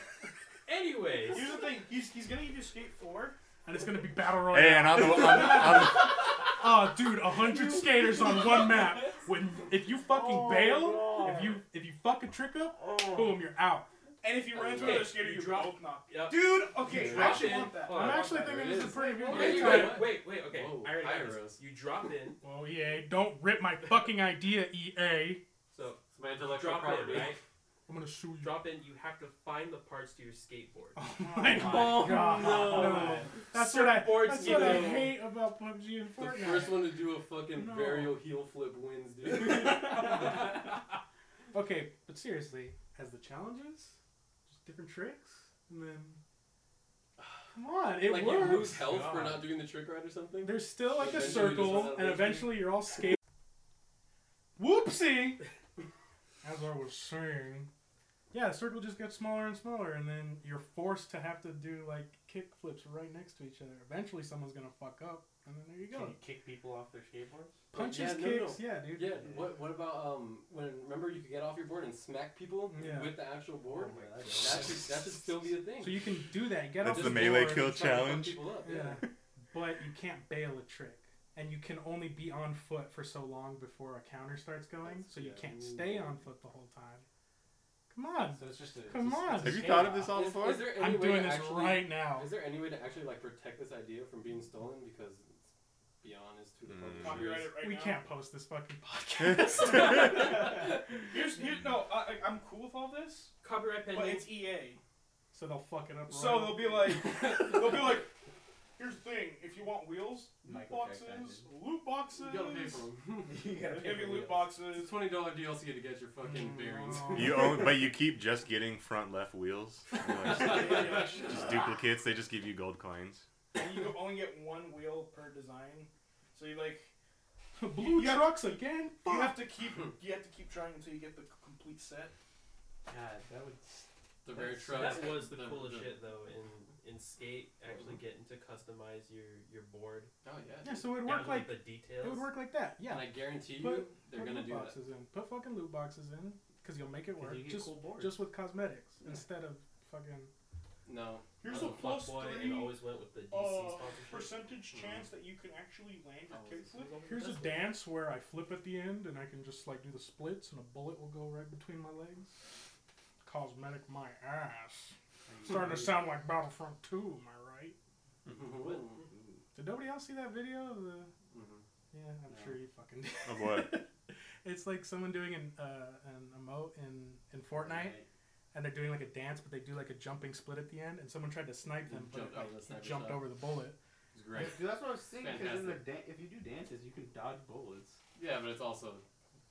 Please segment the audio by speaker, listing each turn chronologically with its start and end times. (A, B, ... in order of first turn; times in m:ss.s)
0:00.6-0:01.5 A
0:01.3-0:03.4 B
0:03.6-0:13.9 C
0:04.5-0:06.3 D
0:07.5-0:07.9 E
0:10.1-0:11.6 E
0:12.8-0:13.3 E
0:14.2-0:19.4 B
0:14.5-0:15.1 F
0:14.6-0:18.7 A
0:16.9-0:21.6 F
0:17.1-0:20.0 C
0:19.3-0:22.4 A
0:22.4-0:25.4 C
0:25.7-0:27.4 A
0:26.1-0:27.4 F
0:27.9-0:28.6 C
0:28.4-0:35.1 A
0:31.0-0:38.2 C
0:31.2-0:33.3 E
0:34.3-0:35.1 F
0:36.2-0:40.5 F
0:39.5-0:40.8 C
0:41.5-0:44.0 C
0:44.5-0:46.2 C
0:47.2-0:52.6 F
0:47.5-0:48.9 C
0:48.9-0:49.4 A
0:50.4-0:53.2 C
0:51.4-0:51.7 B
0:54.6-0:55.4 C
0:56.4-0:57.7 C
0:58.3-1:06.2 C
1:05.9-1:07.6 E
1:07.7-1:09.3 C
1:07.7-1:16.0 F
1:09.2-1:09.5 E
1:12.7-1:13.2 C
1:13.7-1:14.8 E
1:15.8-1:17.9 C
1:16.8-1:18.4 D
1:16.8-1:19.0 F
1:18.6-1:27.1 C
1:24.8-1:26.2 F
1:27.9-1:29.9 C
1:28.3-1:30.3 E
1:29.4-1:30.8 D
1:30.1-1:37.5 F
1:30.5-1:32.3 C
1:36.6-1:37.4 D
1:37.0-1:38.0 B
1:37.6-1:40.7 C
1:39.2-1:39.7 D
1:40.0-1:44.8 B
1:43.4-1:44.4 A
1:45.3-1:46.8 C
1:46.1-1:48.1 B
1:47.1-1:47.8 F
1:48.8-1:52.8 B
1:50.4-1:51.5 E
1:52.1-1:53.4 F
1:53.2-1:54.5 E
1:53.8-1:55.0 B
1:54.7-1:57.5 F
1:56.2-1:57.6 C
1:57.1-2:03.2 D
2:00.2-2:01.5 B
2:00.5-2:00.9 F
2:03.5-2:06.9 B
2:07.6-2:09.4 C
2:07.8-2:12.1 B
2:12.8-2:15.1 E
2:14.2-2:16.0 F
2:14.7-2:20.1 A
2:20.2-2:20.9 F
2:20.6-2:30.3 C
2:21.0-2:22.3 A
2:22.9-2:24.7 F
2:27.2-2:28.2 E
2:30.8-2:31.7 F
2:31.4-2:37.0 B
2:31.4-2:34.4 A
2:34.7-2:35.0 F
2:36.3-2:36.8 F
2:36.7-2:37.7 A
2:37.0-2:42.5 C
2:43.2-2:47.8 C
2:45.3-2:46.1 E
2:48.2-2:49.0 F
2:48.6-2:49.4 E
2:49.5-2:51.1 C
2:51.3-2:51.6 F
2:51.9-2:58.0 C
2:52.3-2:52.6 E
2:53.2-2:53.8 D
2:57.5-2:58.1 E
2:58.5-3:03.8 C
3:01.8-3:03.2 F
3:04.1-3:05.8 F
3:04.3-3:08.0 E
3:08.2-3:09.0 F